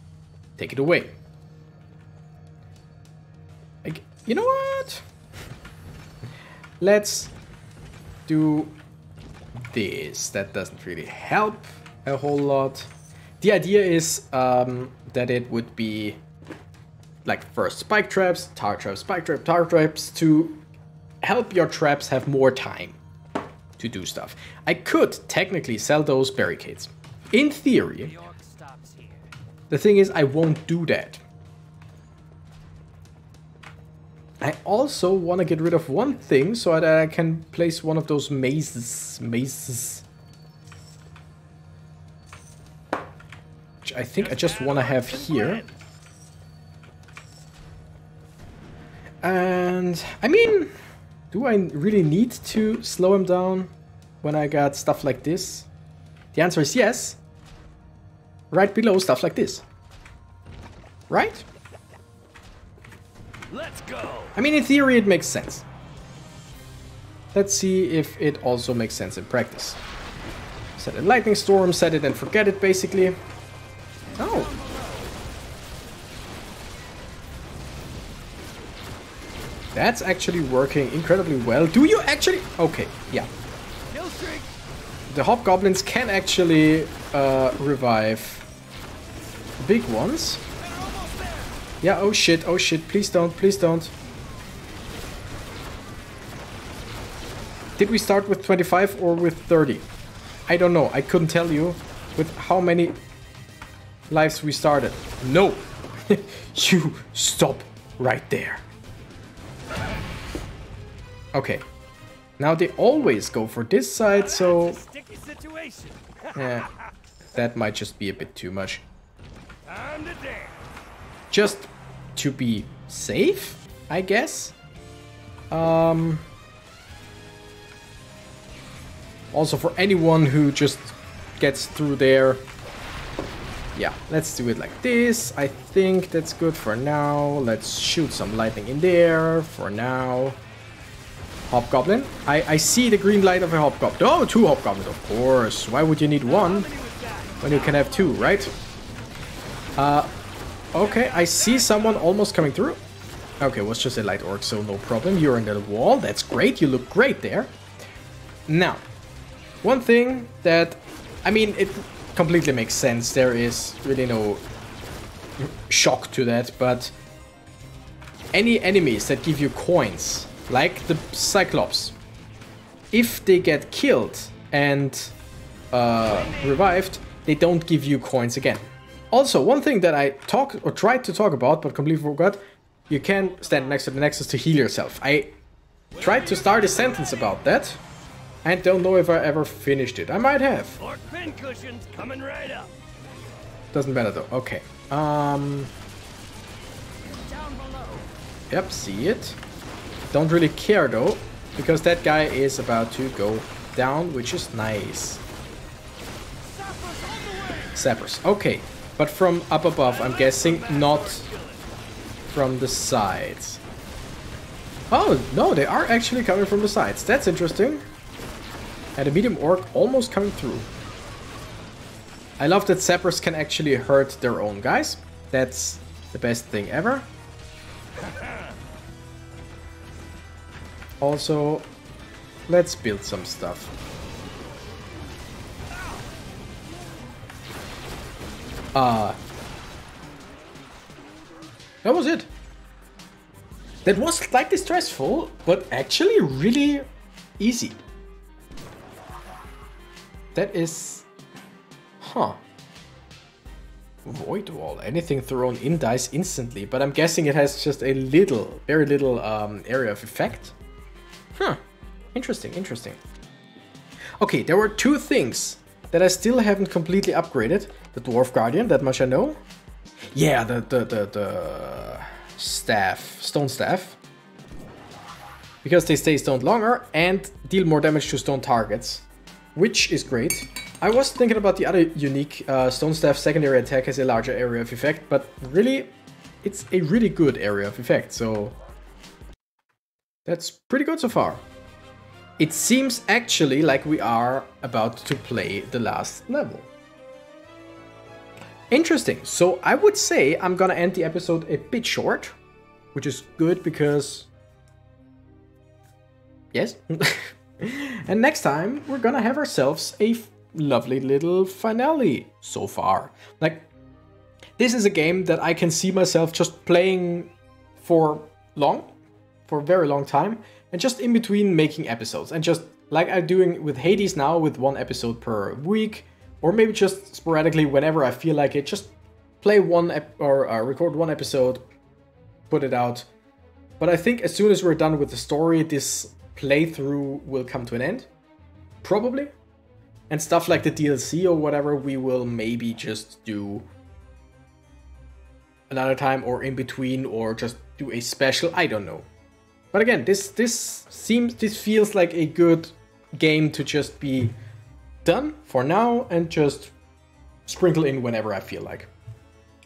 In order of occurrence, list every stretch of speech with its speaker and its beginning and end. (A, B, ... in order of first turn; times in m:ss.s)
0:00.6-0:01.2 A
0:03.8-0:05.0 A
0:06.8-0:07.3 A
0:08.3-0:08.8 A
0:09.7-0:12.9 A
0:13.4-0:16.2 A
0:17.2-0:20.6 A
0:21.2-0:23.0 A
0:23.8-0:28.2 A
0:28.0-0:29.3 B
0:29.7-0:31.2 A
0:34.4-0:40.0 A
0:43.8-0:45.6 A
0:44.2-0:45.8 B
0:49.2-0:50.7 A
0:51.3-0:53.7 A
0:54.2-0:55.7 A
0:56.3-0:57.2 A
0:58.5-0:59.6 A
1:01.1-1:01.4 A
1:03.5-1:04.4 B
1:04.4-1:05.7 A
1:07.3-1:09.8 A
1:10.8-1:13.2 A
1:14.2-1:15.2 B
1:14.2-1:14.5 A
1:19.8-1:23.3 A
1:23.9-1:24.5 B
1:25.1-1:28.5 A
1:29.6-1:30.4 A
1:30.6-1:31.6 B
1:31.8-1:33.9 A
1:37.8-1:39.9 A
1:40.5-1:43.0 A
1:44.1-1:48.6 A
1:51.3-1:51.6 A
1:52.4-1:54.8 A
1:54.1-1:56.9 B
1:56.4-1:56.7 A
1:57.3-1:58.8 A
1:59.7-2:00.7 B
2:01.3-2:04.6 A
2:05.5-2:06.3 A
2:09.3-2:12.4 A
2:13.8-2:20.4 A
2:21.5-2:26.7 A
2:26.2-2:28.5 B
2:27.4-2:28.5 A
2:29.8-2:30.1 A
2:30.7-2:32.8 A
2:30.8-2:32.1 B
2:33.4-2:37.5 A
2:38.5-2:38.8 A
2:39.6-2:44.4 A
2:45.4-2:46.9 A
2:48.3-2:52.0 A
2:52.9-2:55.2 A
2:55.7-3:05.3 A
2:56.0-2:56.7 B
3:03.2-3:03.8 B
3:05.9-3:07.4 B
3:06.0-3:07.8 A
3:08.4-3:10.8 A
3:10.8-3:12.7 B
3:13.7-3:15.7 A
3:17.1-3:18.1 B
3:18.5-3:19.4 A
3:20.1-3:25.2 A
3:26.4-3:27.8 B
3:27.8-3:31.3 A
3:29.8-3:31.7 B
3:32.3-3:33.6 A
3:34.9-3:37.8 A
3:39.0-3:40.7 A
3:42.4-3:47.1 A
3:48.0-3:48.6 B
3:51.0-3:51.7 A
3:52.5-3:53.7 A
3:55.7-3:56.1 B
3:58.8-3:59.2 A
4:01.8-4:02.3 A
4:03.8-4:06.9 A
4:07.4-4:07.8 A
4:10.3-4:11.1 A
4:12.0-4:12.4 A
4:14.0-4:20.6 A
4:22.1-4:23.0 A
4:24.2-4:29.4 A
4:30.1-4:34.0 A
4:35.6-4:45.9 A
4:46.4-4:48.6 A
4:50.2-4:51.4 A
4:52.4-4:56.7 A
4:58.7-5:02.4 A
5:02.9-5:04.3 A
5:06.5-5:13.7 A
5:14.6-5:18.9 A
5:19.5-5:31.6 A
5:32.5-5:33.1 A
5:33.8-5:38.1 A
5:38.8-5:39.3 A
5:40.1-5:43.7 A
5:45.7-5:49.1 A
5:49.7-5:54.3 A
5:55.0-5:56.7 A
5:57.5-5:58.9 A